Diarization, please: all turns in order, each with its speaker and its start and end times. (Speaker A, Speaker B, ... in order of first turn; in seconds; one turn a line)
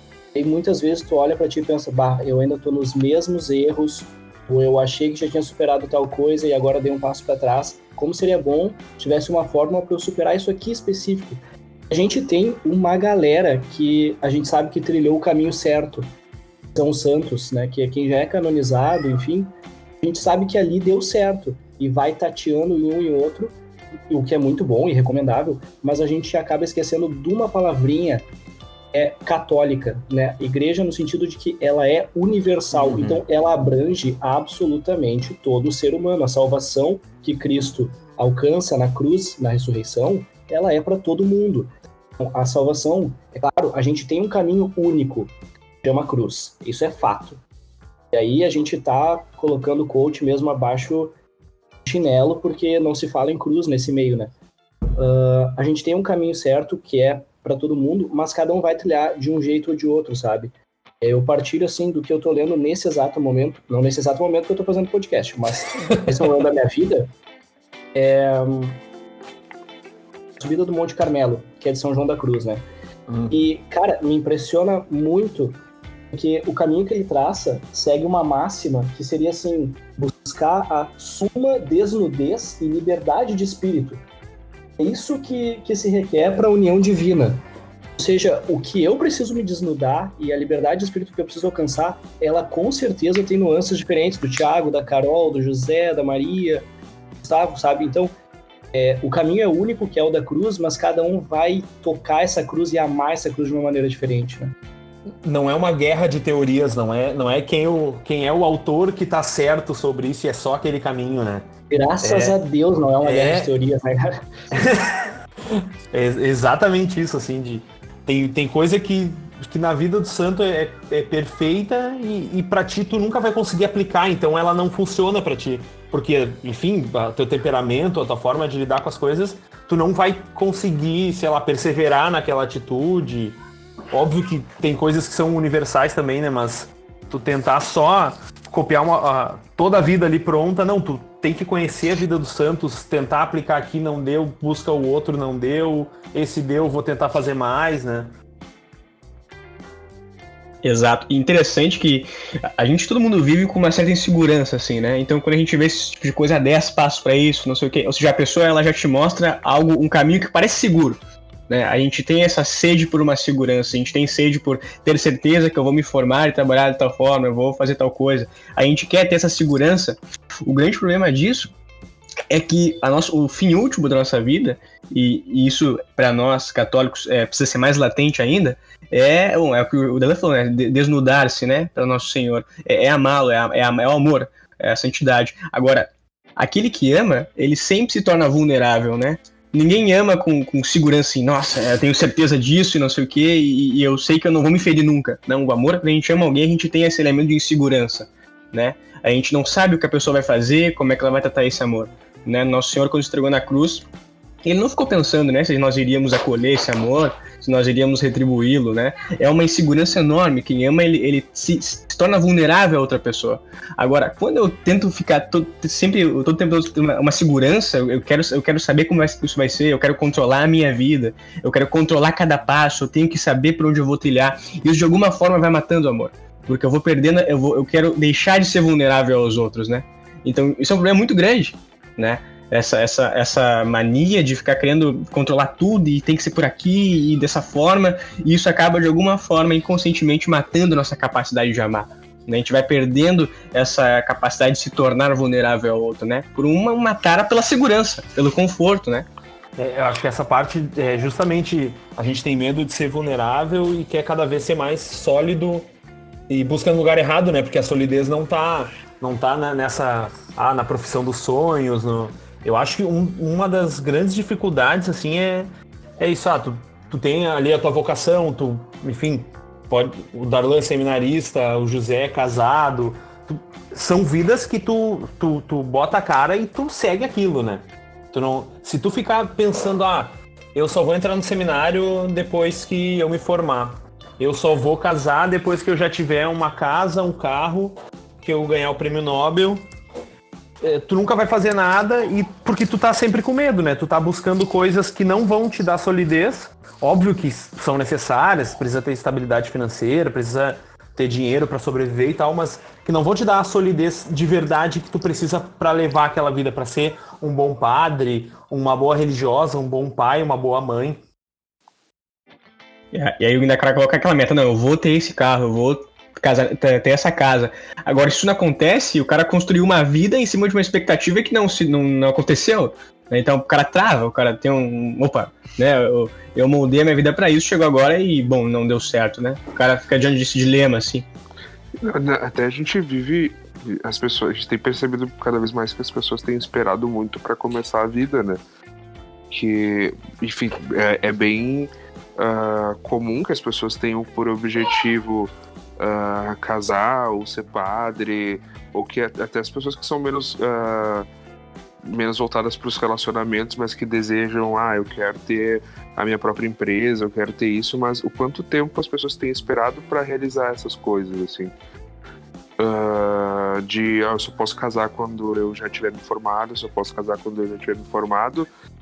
Speaker A: 0.3-16.1
Speaker A: 16.7-23.6
Speaker A: 24.1-28.3
Speaker A: 28.9-45.3
Speaker B: 32.7-33.2
Speaker A: 45.8-47.4
Speaker A: 48.1-51.1
Speaker A: 51.9-54.3
Speaker A: 55.0-67.1
Speaker B: 65.8-66.2
Speaker A: 67.9-68.8
Speaker A: 70.4-72.6
Speaker B: 73.1-73.3
Speaker A: 73.3-75.6
Speaker A: 76.1-84.0
Speaker A: 84.8-87.4
Speaker A: 88.0-96.6
Speaker A: 97.2-98.1
Speaker A: 98.7-104.5
Speaker B: 105.2-111.5
Speaker A: 111.7-114.2
Speaker B: 112.0-112.4
Speaker B: 113.0-113.5
Speaker B: 114.5-133.3
Speaker B: 133.9-148.1
Speaker C: 150.6-171.5
Speaker C: 172.3-203.9
Speaker C: 204.4-249.1
Speaker B: 249.6-255.7
Speaker B: 256.3-289.6
Speaker B: 290.6-311.0
Speaker C: 312.9-331.1
Speaker D: 331.8-338.4
Speaker D: 339.3-351.1
Speaker D: 351.8-361.5
Speaker D: 362.6-368.5